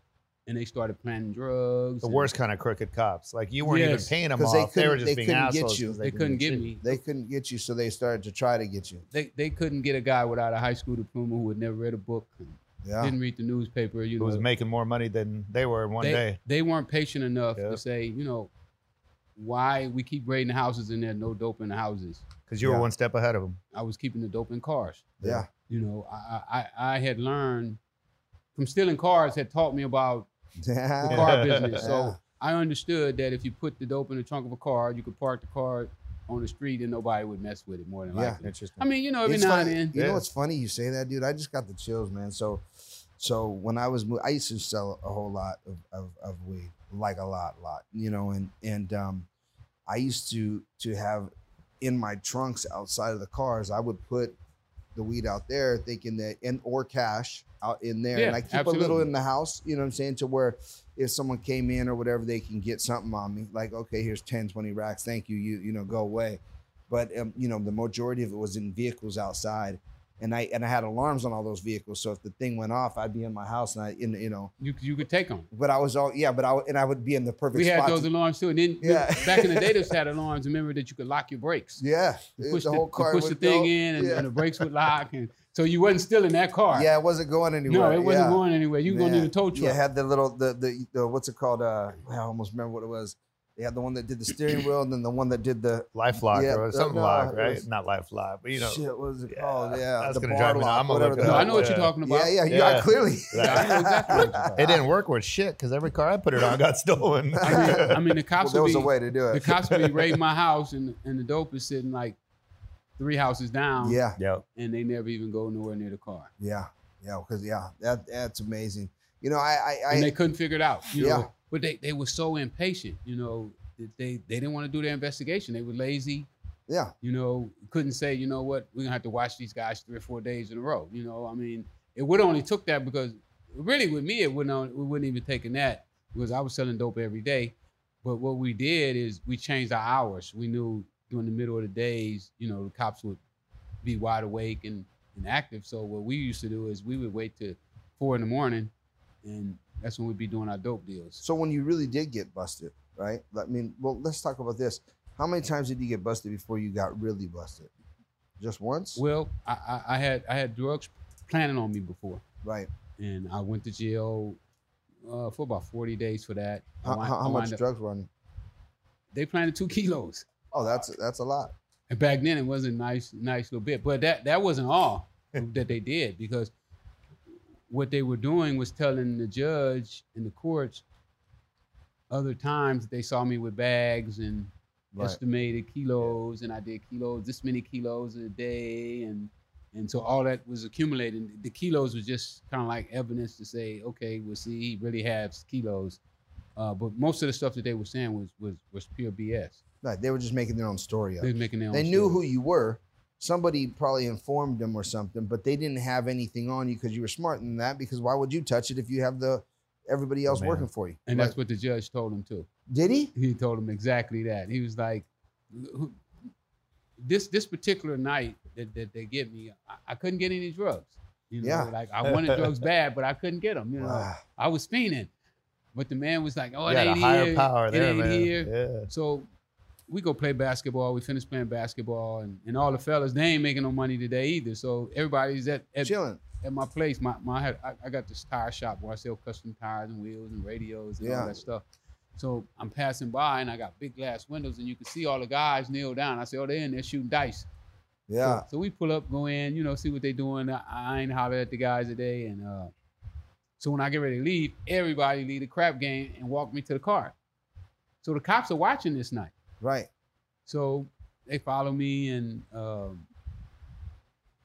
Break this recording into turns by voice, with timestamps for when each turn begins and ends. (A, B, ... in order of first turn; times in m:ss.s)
0:00.4-0:02.3 A
0:02.0-0:06.6 B
0:03.6-0:04.1 A
0:04.3-0:06.0 C
0:06.0-0:07.0 A
0:06.8-0:09.0 C
0:09.1-0:14.4 A
0:12.8-0:13.1 C
0:14.2-0:16.4 B
0:16.0-0:18.5 A
0:19.4-0:22.2 A
0:22.5-0:23.6 B
0:22.6-0:22.9 C
0:23.7-0:25.2 A
0:25.2-0:25.5 C
0:25.7-0:27.8 A
0:28.5-0:30.3 A
0:30.6-0:32.2 C
0:31.0-0:31.9 B
0:31.0-0:40.0 A
0:38.1-0:38.4 C
0:38.4-0:38.9 B
0:39.2-0:42.6 C
0:39.9-0:40.2 B
0:43.2-0:49.3 C
0:49.9-0:54.4 C
0:54.9-1:14.5 C
0:58.1-0:59.1 A
1:14.6-1:15.5 A
1:15.5-1:18.1 C
1:17.5-1:21.8 A
1:18.8-1:19.8 C
1:21.8-1:24.4 C
1:22.4-1:26.9 A
1:26.7-1:37.6 C
1:27.7-1:29.8 A
1:35.9-1:41.9 B
1:38.6-1:44.8 C
1:41.2-1:42.8 A
1:42.5-1:48.0 B
1:43.3-1:44.7 A
1:47.4-1:49.5 C
1:47.4-1:52.2 A
1:49.5-1:50.2 B
1:53.0-1:54.0 A
1:53.8-1:54.2 C
1:54.2-1:54.4 B
1:54.6-1:56.3 A
1:56.4-2:00.1 C
1:59.9-2:06.3 A
2:00.9-2:01.3 C
2:06.7-2:06.9 C
2:07.0-2:23.2 A
2:23.8-2:28.7 A
2:29.2-2:31.2 A
2:31.2-2:37.7 C
2:38.4-2:39.0 C
2:39.0-2:42.2 A
2:42.4-2:42.7 C
2:43.0-2:44.4 A
2:45.0-2:47.6 A
2:46.8-2:48.1 C
2:49.1-2:50.2 A
2:50.5-2:51.5 C
2:51.9-2:56.5 A
2:57.7-3:00.8 A
3:02.1-3:16.0 A
3:16.6-3:19.6 A
3:19.8-3:31.3 C
3:21.2-3:22.2 A
3:30.3-3:30.7 B
3:31.1-3:32.5 A
3:32.7-3:33.1 C
3:33.1-3:36.0 A
3:37.0-3:45.1 A
3:41.4-3:41.7 C
3:42.1-3:42.5 B
3:43.8-3:44.2 C
3:45.7-3:49.3 A
3:46.7-3:48.9 B
3:49.9-4:01.6 A
3:55.8-3:56.2 C
4:01.0-4:01.4 C
4:02.2-4:07.5 A
4:08.1-4:08.4 C
4:08.2-4:12.7 A
4:13.6-4:17.1 A
4:18.0-4:19.3 A
4:19.6-4:19.9 C
4:20.5-4:23.1 A